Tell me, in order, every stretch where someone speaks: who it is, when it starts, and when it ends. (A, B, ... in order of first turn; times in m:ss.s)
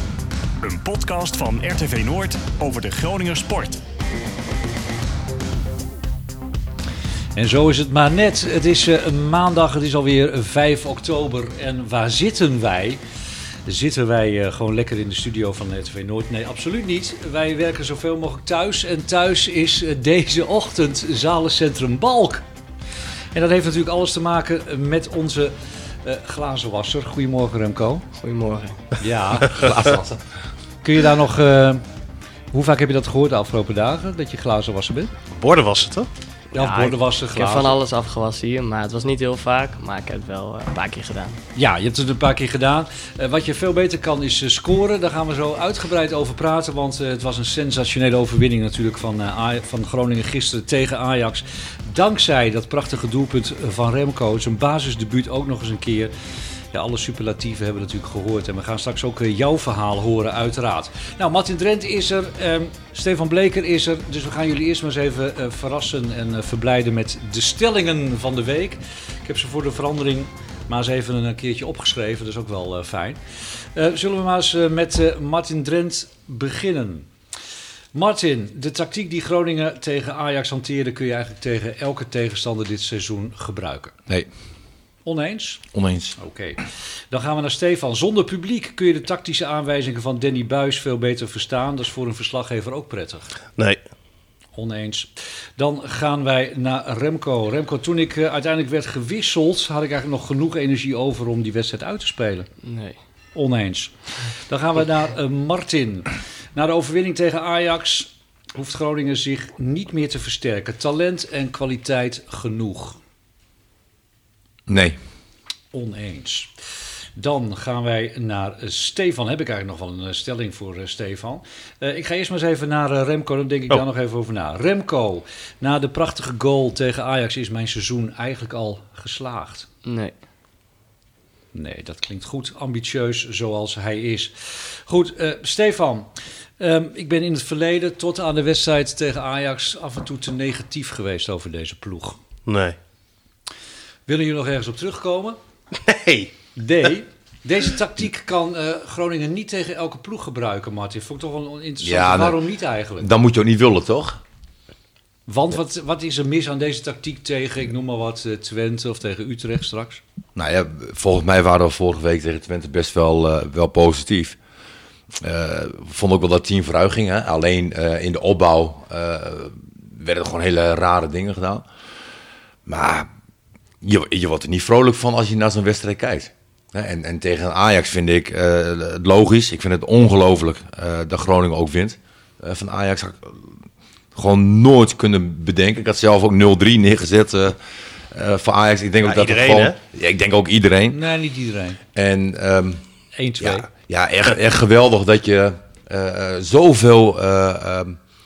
0:00.6-0:03.8 A
0:07.4-0:13.0 B
0:13.7-0:22.4 B
0:23.3-0:28.0 B
0:28.2-0:28.8 C
0:29.0-0:29.6 B
0:29.4-0:29.7 D
0:29.5-0:30.2 E
0:30.8-0:31.8 B
0:32.5-0:35.1 B
0:35.4-0:36.1 D
0:36.5-0:37.8 B
0:36.5-0:41.4 C
0:41.6-0:56.1 B
0:56.7-1:13.2 B
1:13.8-1:17.1 B
1:17.9-1:24.0 B
1:25.0-1:25.6 B
1:25.7-1:26.2 E
1:26.2-1:33.3 B
1:34.6-1:42.5 B
1:42.6-1:43.0 C
1:43.4-1:53.0 B
1:54.7-1:55.0 E
1:55.7-1:56.5 B
1:57.2-2:09.7 B
2:09.8-2:10.2 C
2:11.5-2:22.2 B
2:22.5-2:22.8 D
2:24.1-2:25.4 B
2:25.7-2:26.3 D
2:26.6-2:33.1 B
2:31.8-2:32.4 E
2:33.0-2:34.2 E
2:35.3-2:40.0 B
2:40.4-2:44.4 E
2:45.2-2:51.7 E
2:52.7-2:53.1 E
2:53.8-3:03.5 E
3:04.2-3:07.6 E
3:08.1-3:11.0 E
3:09.0-3:09.8 D
3:10.9-3:11.8 B
3:11.9-3:12.8 E
3:13.2-3:13.7 B
3:13.4-3:18.0 E